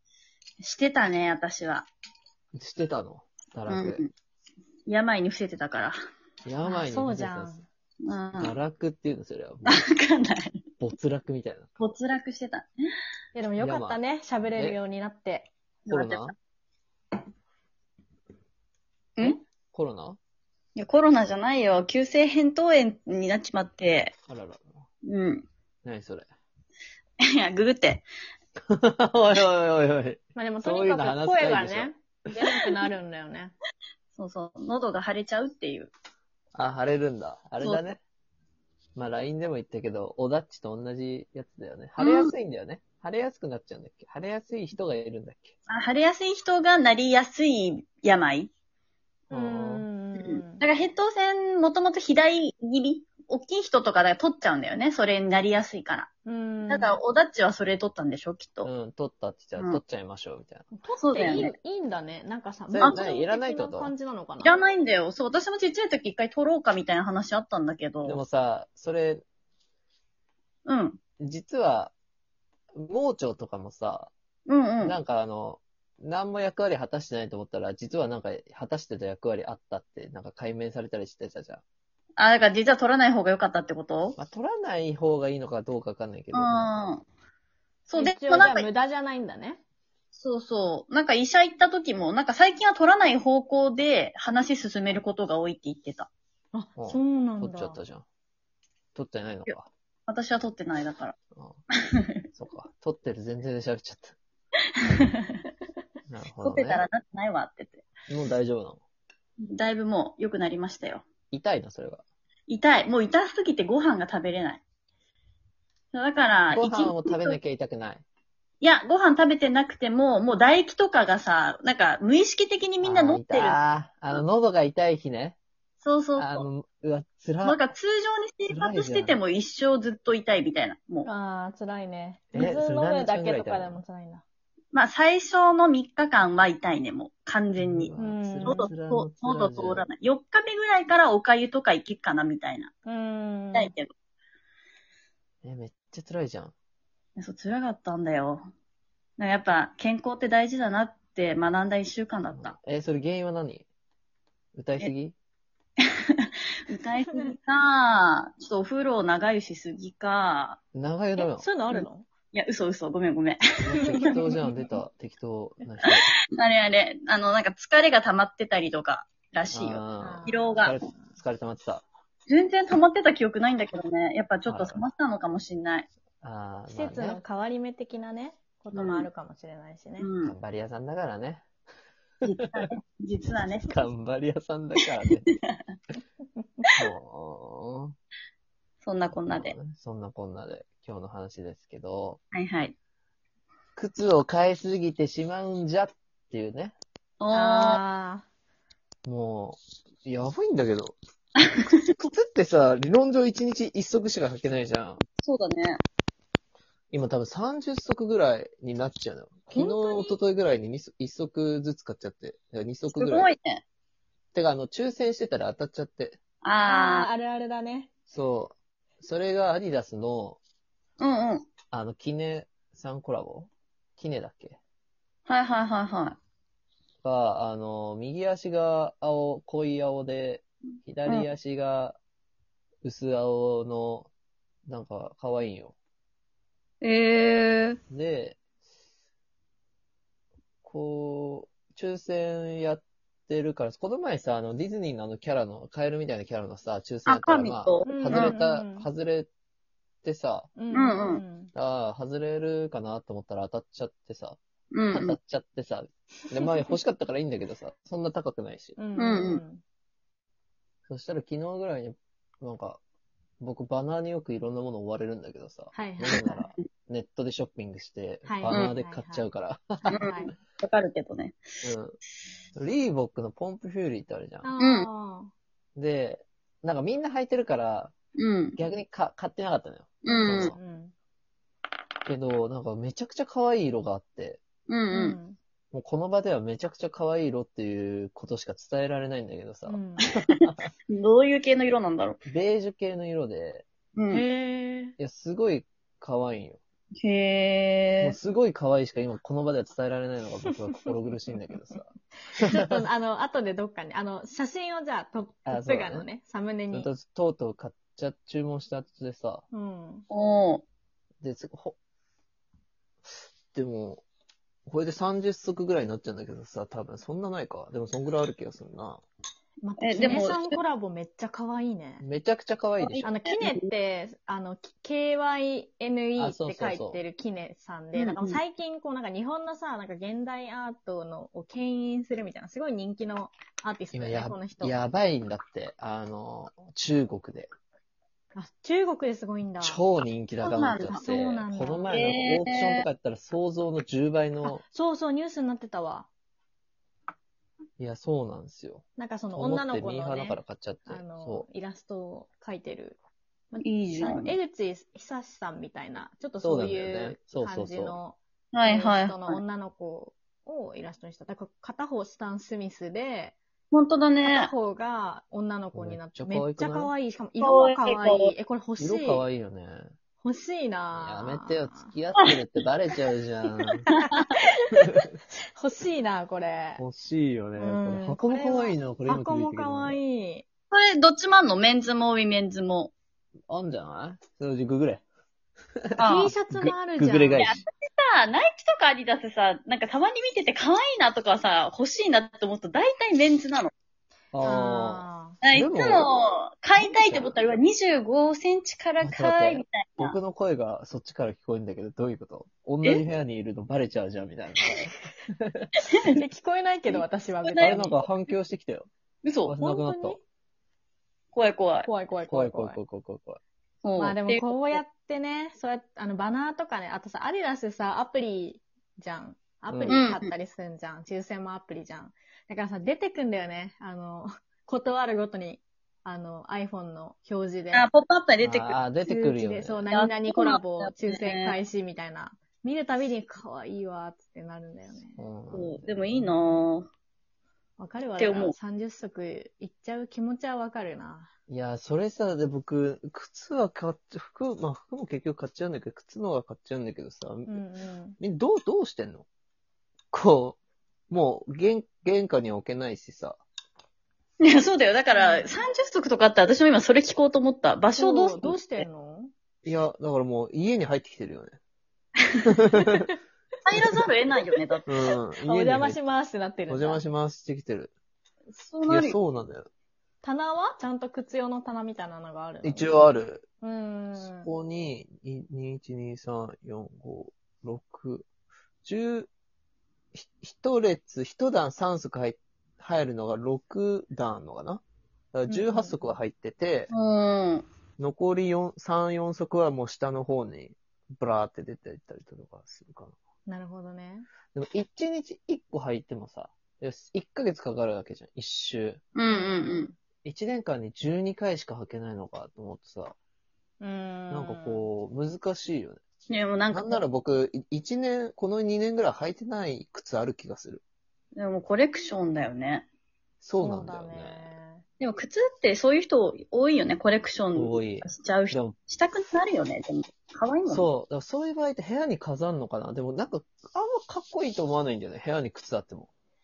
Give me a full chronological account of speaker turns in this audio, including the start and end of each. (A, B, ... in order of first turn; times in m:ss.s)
0:00.6-0:01.9 A
0:02.5-0:04.0 B
0:03.7-0:04.1 A
0:04.9-0:06.0 A
0:06.4-0:07.6 B
0:06.6-0:07.7 C
0:08.0-0:08.6 A
0:08.4-0:09.8 B
0:09.7-0:10.6 A
0:10.8-0:11.8 B
0:11.8-0:12.7 A
0:13.3-0:15.5 C
0:13.6-0:14.0 B
0:14.5-0:14.8 B
0:15.9-0:16.3 A
0:15.9-0:16.4 B
0:19.7-0:20.2 B
0:20.8-0:24.1 A
0:24.3-0:24.7 B
0:25.0-0:25.5 A
0:25.8-0:26.3 B
0:27.4-0:28.1 A
0:28.7-0:31.9 B
0:30.4-0:33.5 C
0:34.2-0:35.9 A
0:36.5-0:38.0 B
0:37.6-0:37.9 A
0:39.0-0:45.6 B
0:42.0-0:42.3 A
0:45.7-0:48.5 A
0:49.3-0:50.6 C
0:49.3-0:49.9 B
0:50.2-0:56.1 A
0:56.3-0:57.0 C
0:56.7-0:58.7 A
0:58.6-1:00.7 B
1:00.7-1:04.7 C
1:00.9-1:01.5 A
1:02.7-1:03.9 B
1:02.8-1:03.1 A
1:04.4-1:08.2 A
1:08.0-1:09.2 B
1:10.7-1:11.0 A
1:11.2-1:11.9 B
1:12.8-1:14.1 B
1:14.5-1:15.0 A
1:14.8-1:21.6 B
1:22.2-1:24.2 A
1:24.2-1:26.7 B
1:26.3-1:27.0 A
1:27.9-1:28.7 A
1:28.0-1:29.6 C
1:30.2-1:36.1 A
1:36.5-1:37.8 C
1:36.8-1:38.0 B
1:39.0-1:39.7 B
1:40.1-1:41.2 A
1:41.3-1:41.6 B
1:41.9-1:42.2 A
1:42.3-1:44.2 B
1:44.8-1:45.1 A
1:46.1-1:46.8 B
1:46.4-1:47.8 A
1:48.1-1:48.8 B
1:49.4-1:51.0 A
1:51.3-1:52.0 B
1:52.5-1:54.6 A
1:55.9-1:57.4 A
1:56.5-1:58.0 B
1:58.6-2:03.6 A
2:02.8-2:05.4 B
2:05.8-2:06.5 A
2:06.2-2:07.6 B
2:07.4-2:11.1 A
2:08.5-2:09.2 B
2:11.0-2:14.2 C
2:12.3-2:13.8 B
2:14.7-2:17.9 A
2:17.6-2:19.9 B
2:18.0-2:18.7 C
2:18.4-2:22.7 A
2:22.9-2:23.7 C
2:23.5-2:23.9 A
2:25.4-2:26.5 B
2:27.2-2:28.4 A
2:29.2-2:32.6 A
2:32.3-2:33.7 B
2:34.5-2:35.2 B
2:35.8-2:40.6 A
2:37.1-2:37.3 C
2:40.7-2:41.5 B
2:41.2-2:42.1 C
2:41.7-2:43.8 A
2:43.6-2:46.1 B
2:43.8-2:44.8 C
2:46.4-2:50.7 A
2:49.5-2:51.8 B
2:50.0-2:51.0 C
2:52.3-2:55.9 A
2:54.5-2:54.9 B
2:56.2-2:57.2 B
2:56.7-3:00.1 C
2:58.7-2:59.1 A
3:00.0-3:00.4 A
3:00.2-3:01.4 B
3:02.2-3:03.9 A
3:03.6-3:05.3 B
3:05.4-3:05.7 A
3:06.8-3:07.9 B
3:08.8-3:09.6 A
3:09.2-3:12.2 B
3:12.3-3:12.7 A
3:13.8-3:16.7 B
3:17.2-3:17.8 A
3:17.3-3:18.3 C
3:19.1-3:21.0 B
3:21.4-3:21.9 A
3:22.0-3:25.0 B
3:25.2-3:25.8 A
3:26.9-3:33.3 B
3:29.5-3:30.2 C
3:33.0-3:33.6 A
3:34.3-3:36.2 B
3:36.4-3:37.1 A
3:36.6-3:37.9 C
3:38.1-3:40.4 B
3:41.0-3:41.5 A
3:41.7-3:44.6 B
3:45.3-3:46.2 A
3:47.0-3:52.0 B
3:52.8-3:54.1 B
3:54.7-3:55.8 B
3:56.8-3:57.8 A
3:57.9-3:58.4 B
4:00.6-4:09.3 B
4:07.1-4:08.4 A
4:07.8-4:08.9 C
4:10.0-4:10.5 B
4:10.6-4:11.5 C
4:10.7-4:11.2 A
4:11.5-4:14.4 B
4:14.7-4:15.2 A
4:14.9-4:18.8 B
4:18.8-4:19.6 C
4:19.0-4:19.4 A
4:20.9-4:22.8 B
4:23.4-4:30.3 B
4:25.7-4:26.5 C
4:28.3-4:29.3 C
4:28.5-4:28.7 A
4:29.9-4:31.4 A
4:30.0-4:30.3 C
4:31.6-4:32.0 B
4:32.6-4:34.5 B
4:34.4-4:35.3 C
4:34.6-4:34.9 A
4:35.8-4:37.9 B
4:38.2-4:38.6 A
4:38.6-4:40.6 B
4:40.0-4:40.6 A
4:40.1-4:40.9 C
4:42.1-4:44.4 B
4:44.7-4:45.2 A
4:44.9-4:45.4 C
4:45.7-4:50.7 B
4:49.7-4:50.1 C
4:50.2-4:52.2 A
4:52.3-4:53.7 B
4:54.0-4:54.3 A
4:54.1-4:55.0 C
4:55.0-4:56.6 B
4:57.0-4:58.2 A
4:58.0-5:02.8 B
5:02.3-5:06.9 C
5:05.5-5:06.1 B
5:06.7-5:09.4 B
5:09.5-5:10.1 C
5:10.1-5:10.6 A
5:11.2-5:11.8 B
5:13.5-5:14.0 B
5:14.7-5:19.0 B
5:19.6-5:22.0 C
5:19.8-5:20.6 A
5:22.0-5:23.2 B
5:22.8-5:23.7 A
5:23.0-5:34.8 C
5:26.2-5:27.0 B
5:27.9-5:28.4 A
5:33.9-5:37.5 B
5:38.4-5:39.8 C
5:39.6-5:44.6 B
5:40.4-5:41.0 A
5:40.9-5:42.0 C
5:41.9-5:42.8 A
5:44.4-5:46.1 C
5:47.8-5:51.5 B
5:49.0-5:53.0 C
5:53.5-6:03.4 C
5:53.6-5:54.4 A
5:56.4-5:58.0 B
5:58.5-5:59.4 A
6:03.7-6:04.5 A
6:04.2-6:09.3 C
6:05.7-6:06.9 B
6:07.4-6:08.3 A
6:08.8-6:09.9 B
6:10.2-6:11.9 C
6:10.9-6:13.9 B
6:13.9-6:14.2 A
6:14.0-6:16.8 C
6:16.8-6:20.0 B
6:17.6-6:20.4 C
6:20.7-6:22.9 A
6:23.5-6:25.0 B
6:25.8-6:27.6 B
6:26.0-6:26.3 A
6:26.0-6:27.6 C
6:27.4-6:33.7 A
6:34.3-6:36.1 B
6:34.4-6:35.4 C
6:35.4-6:40.2 A
6:36.8-6:37.5 B
6:39.0-6:45.7 B
6:45.8-6:46.1 A
6:46.1-6:48.0 C
6:46.9-6:48.0 A
6:47.6-6:48.9 B
6:49.2-6:49.6 A
6:49.5-6:50.2 B
6:49.6-6:50.2 C
6:51.3-6:51.9 A
6:51.9-6:52.8 C
6:52.3-6:53.4 B
6:53.8-6:54.8 A
6:54.0-7:07.9 C
6:59.7-7:00.0 B
6:59.9-7:00.3 A
7:07.7-7:08.8 A
7:08.4-7:09.9 B
7:09.0-7:15.2 C
7:09.9-7:11.6 A
7:15.2-7:16.3 B
7:15.5-7:16.9 A
7:17.8-7:21.3 C
7:18.2-7:18.6 A
7:21.5-7:27.6 B
7:27.5-7:28.2 C
7:28.2-7:29.3 B
7:30.1-7:30.6 B
7:31.1-7:33.4 B
7:34.4-7:38.9 A
7:35.1-7:35.7 C
7:37.9-7:39.3 C
7:39.6-7:41.6 B
7:42.5-7:43.1 B
7:42.7-7:43.2 C
7:43.7-7:44.9 A
7:43.8-7:44.5 C
7:44.9-7:46.1 B
7:45.1-7:47.0 C
7:46.7-7:47.9 B
7:48.5-7:49.2 A
7:48.9-7:49.7 B
7:50.2-7:54.5 C
7:52.6-7:53.4 B
7:54.2-7:58.3 B
7:58.8-7:59.3 B
8:00.1-8:06.9 B
8:05.5-8:06.0 C
8:06.9-8:07.7 A
8:08.0-8:13.2 B
8:13.5-8:14.3 C
8:14.5-8:19.0 B
8:19.2-8:19.9 A
8:19.3-8:20.0 C
8:20.2-8:23.2 B
8:23.8-8:24.9 C
8:24.3-8:26.0 B
8:26.3-8:27.0 A
8:26.7-8:30.8 B
8:31.4-8:32.9 A
8:33.4-8:34.6 B
8:33.6-8:34.8 C
8:35.0-8:40.9 A
8:37.5-8:38.8 B
8:40.7-8:46.1 B